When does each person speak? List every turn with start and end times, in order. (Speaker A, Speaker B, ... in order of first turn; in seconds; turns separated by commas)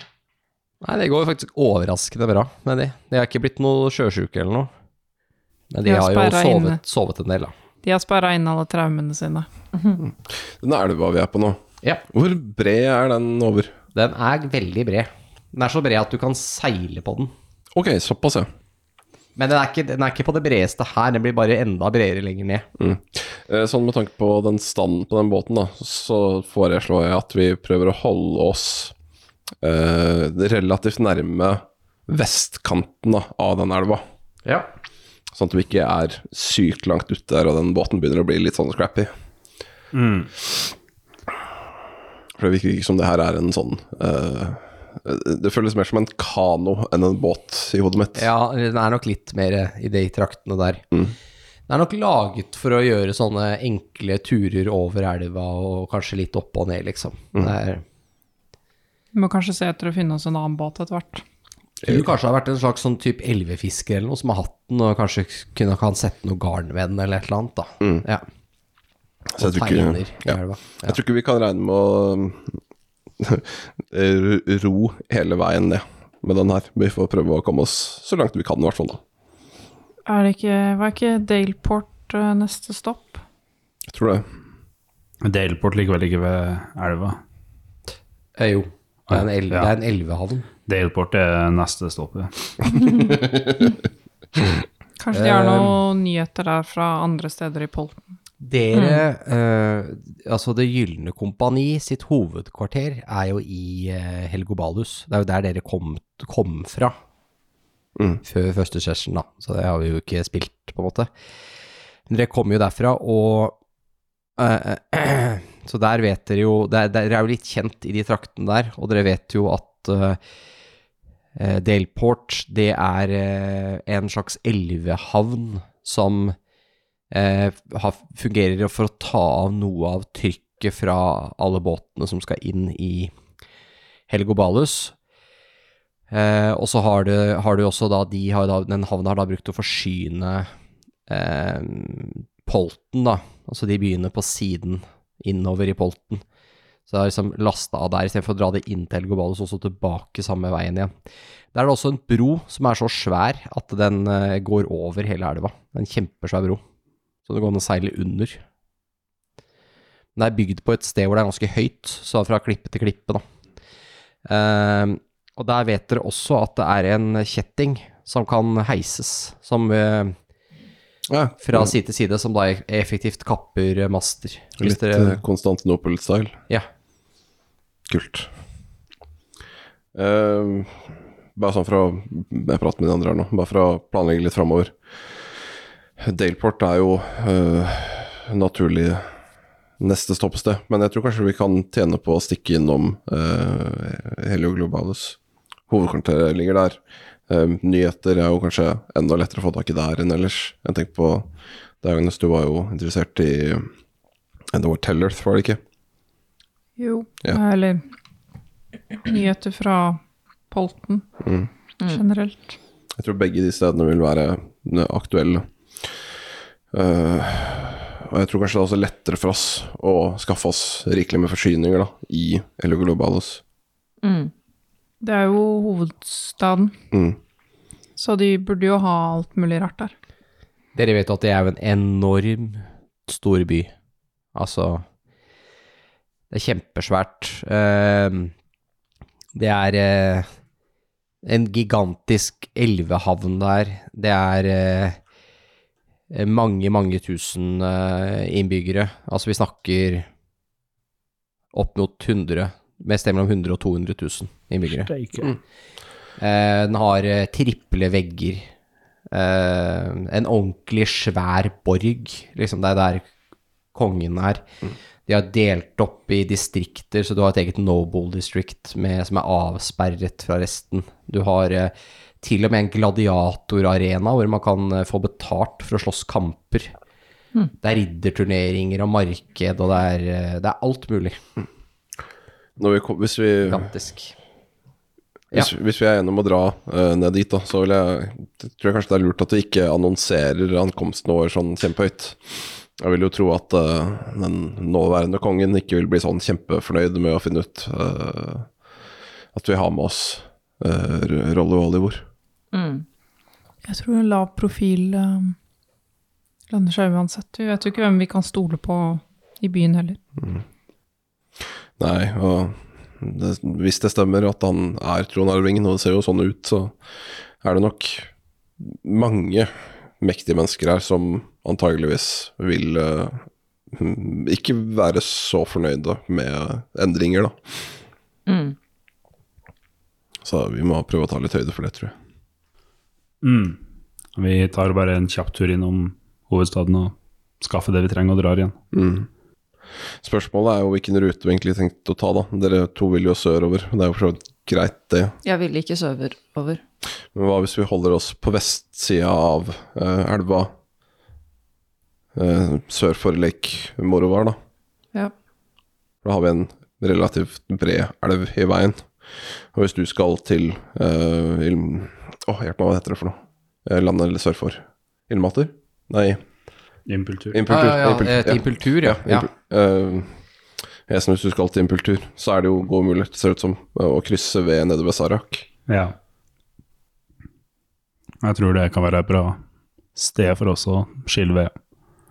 Speaker A: 0.8-4.7, Speaker A: 5.7-7.5, Speaker B: 5.8-6.8, Speaker B: 7.8-9.5, Speaker C: 10.0-13.8, Speaker A: 13.9-17.3, Speaker C: 17.7-18.5, Speaker A: 19.4-22.7, Speaker C: 22.8-28.9, Speaker C: 29.6-34.0, Speaker C: 35.3-39.1, Speaker D: 39.9-40.3, Speaker C: 42.4-48.3, Speaker A: 48.1-50.9, Speaker A: 51.7-57.8, Speaker B: 59.1-61.2, Speaker A: 61.8-68.2, Speaker C: 69.3-72.6, Speaker A: 69.4-71.0, Speaker C: 73.2-79.0, Speaker B: 80.0-83.2, Speaker C: 83.9-84.3, Speaker D: 85.2-87.2, Speaker A: 88.4-90.5, Speaker D: 89.1-89.7, Speaker D: 90.7-92.8, Speaker B: 95.0-98.0, Speaker A: 95.1-95.8, Speaker A: 98.4-107.0, Speaker E: 98.7-99.0, Speaker C: 108.0-108.2, Speaker A: 108.2-111.1, Speaker A: 112.1-113.6, Speaker A: 114.4-120.2, Speaker A: 121.3-126.3, Speaker A: 127.1-133.1, Speaker A: 134.1-134.9, Speaker A: 136.1-140.5, Speaker A: 141.1-146.2, Speaker A: 146.9-150.9, Speaker A: 151.5-156.6, Speaker A: 157.2-158.4, Speaker A: 160.2-163.2, Speaker A: 164.2-170.2, Speaker C: 171.1-171.7, Speaker A: 171.4-175.2, Speaker C: 174.6-176.4, Speaker C: 177.9-178.3, Speaker C: 179.9-184.7, Speaker C: 186.0-189.1, Speaker C: 189.8-195.2, Speaker C: 195.7-201.3, Speaker C: 201.8-203.7, Speaker C: 204.5-205.6, Speaker B: 206.8-207.8, Speaker B: 209.0-211.0, Speaker C: 211.2-211.5, Speaker B: 211.8-212.6, Speaker C: 213.0-215.9, Speaker C: 216.7-223.4, Speaker E: 224.0-224.3, Speaker B: 225.0-226.7, Speaker C: 226.9-227.2, Speaker B: 228.0-229.9, Speaker A: 230.7-233.7, Speaker A: 234.3-234.8, Speaker A: 236.3-238.3, Speaker A: 239.3-240.3, Speaker A: 241.2-245.0, Speaker A: 246.1-250.1, Speaker A: 251.5-254.9, Speaker D: 254.7-255.3, Speaker A: 256.2-258.5, Speaker A: 259.1-263.1, Speaker A: 263.7-264.4, Speaker A: 265.1-276.7, Speaker A: 277.6-281.2, Speaker C: 282.6-283.7, Speaker A: 283.5-284.1, Speaker C: 285.3-298.5, Speaker C: 299.3-302.0, Speaker E: 302.5-302.9, Speaker B: 303.6-305.4, Speaker B: 306.5-310.0, Speaker C: 311.8-316.8, Speaker C: 317.4-318.1, Speaker C: 318.6-327.7, Speaker E: 328.3-328.6, Speaker C: 330.2-331.9, Speaker D: 333.2-333.6, Speaker D: 334.1-338.6, Speaker C: 338.7-339.1, Speaker C: 340.0-345.1, Speaker E: 345.2-346.6, Speaker C: 347.1-350.5, Speaker C: 352.1-354.4, Speaker C: 356.0-366.2, Speaker D: 366.9-367.4, Speaker C: 367.3-370.1, Speaker A: 367.5-369.3, Speaker C: 370.9-375.5, Speaker D: 375.7-375.9, Speaker D: 378.2-379.4, Speaker D: 379.9-381.5